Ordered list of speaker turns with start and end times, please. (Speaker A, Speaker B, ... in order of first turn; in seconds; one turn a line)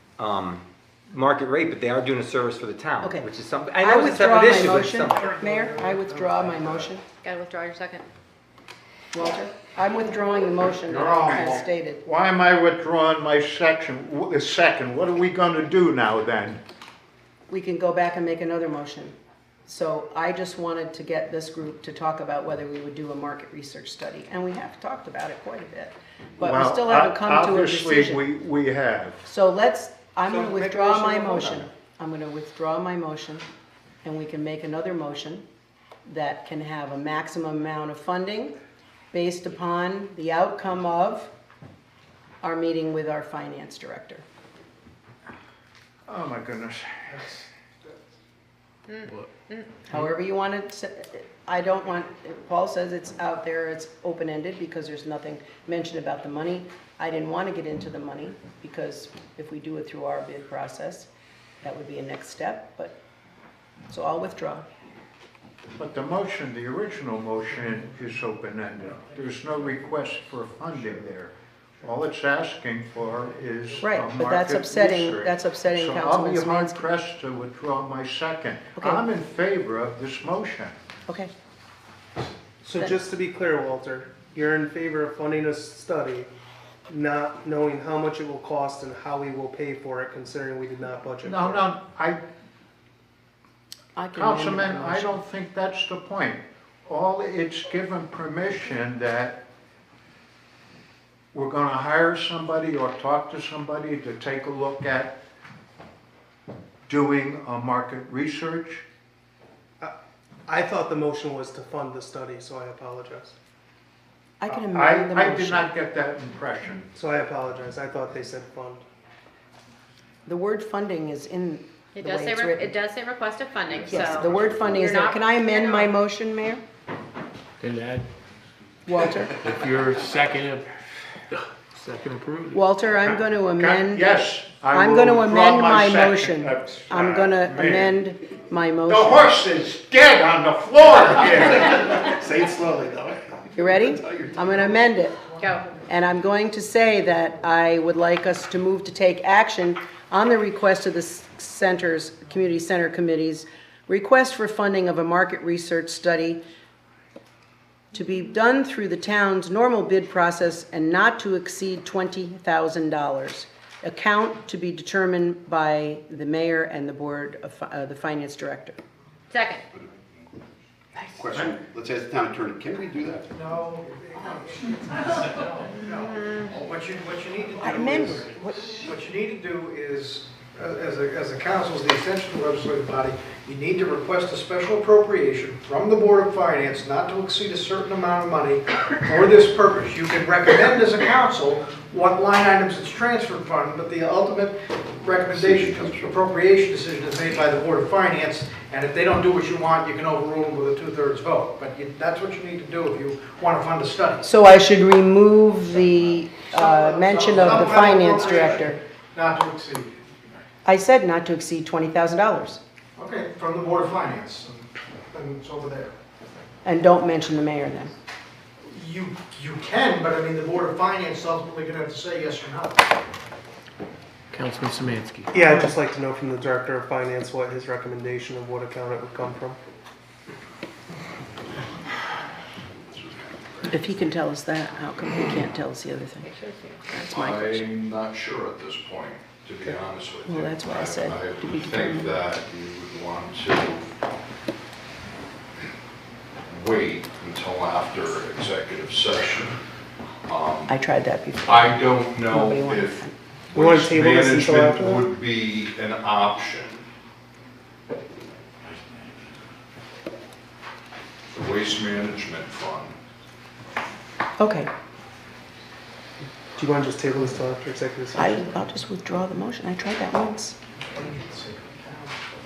Speaker A: 0.2-5.4
Speaker B: 3.0-3.3
Speaker B: 3.8-7.0
Speaker C: 7.2-8.1
Speaker B: 9.1-12.0
Speaker D: 10.9-11.6
Speaker E: 12.0-16.6
Speaker B: 17.5-19.1
Speaker B: 19.7-28.2
Speaker E: 26.4-29.2
Speaker B: 29.2-33.5
Speaker F: 30.3-31.7
Speaker B: 34.0-35.4
Speaker B: 36.1-38.5
Speaker B: 39.1-41.3
Speaker B: 42.4-44.2
Speaker E: 46.1-47.2
Speaker C: 48.9-49.7
Speaker B: 49.9-61.1
Speaker B: 61.6-63.0
Speaker B: 63.9-64.7
Speaker E: 65.8-80.7
Speaker B: 73.8-76.8
Speaker B: 78.8-79.0
Speaker B: 81.1-81.3
Speaker F: 82.6-86.3
Speaker F: 86.9-91.6
Speaker E: 91.2-92.2
Speaker B: 94.0-95.2
Speaker E: 94.1-99.4
Speaker E: 101.3-105.2
Speaker E: 106.9-108.8
Speaker F: 110.5-113.3
Speaker B: 114.4-115.7
Speaker E: 114.5-116.8
Speaker F: 117.0-118.8
Speaker B: 120.3-122.8
Speaker C: 122.0-125.9
Speaker B: 123.8-126.6
Speaker G: 127.6-128.1
Speaker B: 128.9-129.4
Speaker G: 129.3-130.7
Speaker G: 131.8-132.6
Speaker B: 132.5-134.2
Speaker E: 133.5-138.0
Speaker B: 134.7-139.4
Speaker E: 138.9-142.0
Speaker F: 142.0-143.3
Speaker H: 142.4-142.7
Speaker B: 143.5-145.2
Speaker C: 145.4-145.7
Speaker B: 145.8-156.4
Speaker B: 157.9-168.8
Speaker C: 169.3-169.6
Speaker H: 171.2-173.3
Speaker D: 173.3-204.3
Speaker C: 176.0-176.5
Speaker B: 177.6-178.9
Speaker I: 195.5-196.1
Speaker B: 204.2-208.8
Speaker D: 206.5-210.1
Speaker B: 210.7-212.6
Speaker D: 213.0-215.9
Speaker B: 216.7-217.9
Speaker D: 218.7-222.8
Speaker G: 224.3-225.3
Speaker F: 225.3-229.6
Speaker I: 232.9-234.1
Speaker B: 233.7-236.3
Speaker C: 236.2-236.8
Speaker B: 236.9-237.7
Speaker I: 237.0-243.9
Speaker B: 240.2-242.2
Speaker I: 246.5-249.6
Speaker I: 250.3-250.7
Speaker B: 250.7-253.2
Speaker I: 251.4-256.8
Speaker F: 253.6-255.0
Speaker I: 261.3-262.9
Speaker B: 264.4-264.7
Speaker F: 266.6-268.5
Speaker B: 268.1-270.6
Speaker D: 270.9-272.1